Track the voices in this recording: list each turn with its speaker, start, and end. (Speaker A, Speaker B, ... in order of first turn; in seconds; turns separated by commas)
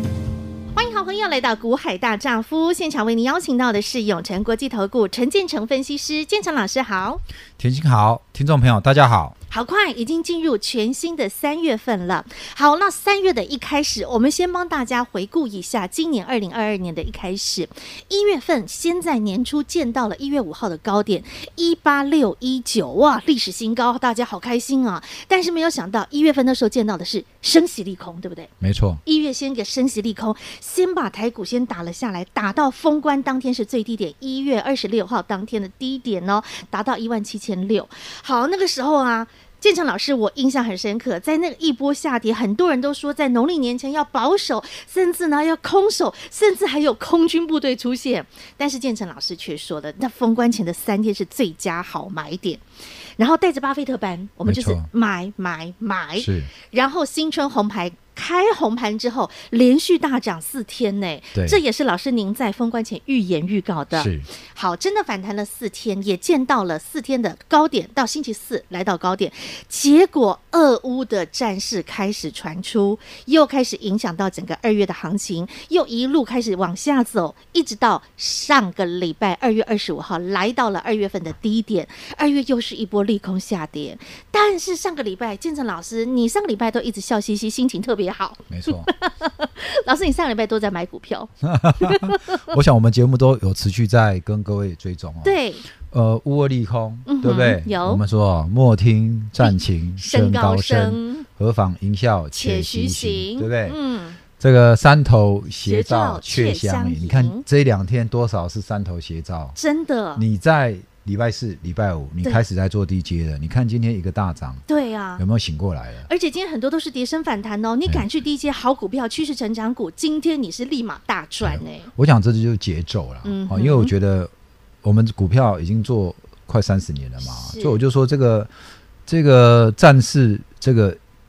Speaker A: 0.7-7.2, Speaker B: 7.6-9.3, Speaker A: 9.5-28.5, Speaker B: 28.6-29.0, Speaker A: 29.0-52.6, Speaker A: 53.2-92.4, Speaker B: 54.5-54.9, Speaker B: 56.2-56.5, Speaker B: 61.3-61.6, Speaker B: 63.9-64.3, Speaker B: 88.5-88.9, Speaker B: 91.4-103.8, Speaker A: 95.2-95.6, Speaker A: 97.0-98.0, Speaker A: 99.4-101.2, Speaker A: 102.3-104.2, Speaker B: 104.4-109.5, Speaker A: 105.6-107.4, Speaker A: 109.5-110.2, Speaker B: 110.2-114.6, Speaker A: 114.7-115.2, Speaker B: 115.2-116.1, Speaker A: 116.1-121.9, Speaker B: 121.4-124.3, Speaker A: 123.2-123.9, Speaker B: 124.8-128.5, Speaker A: 127.2-127.8, Speaker B: 129.1-131.0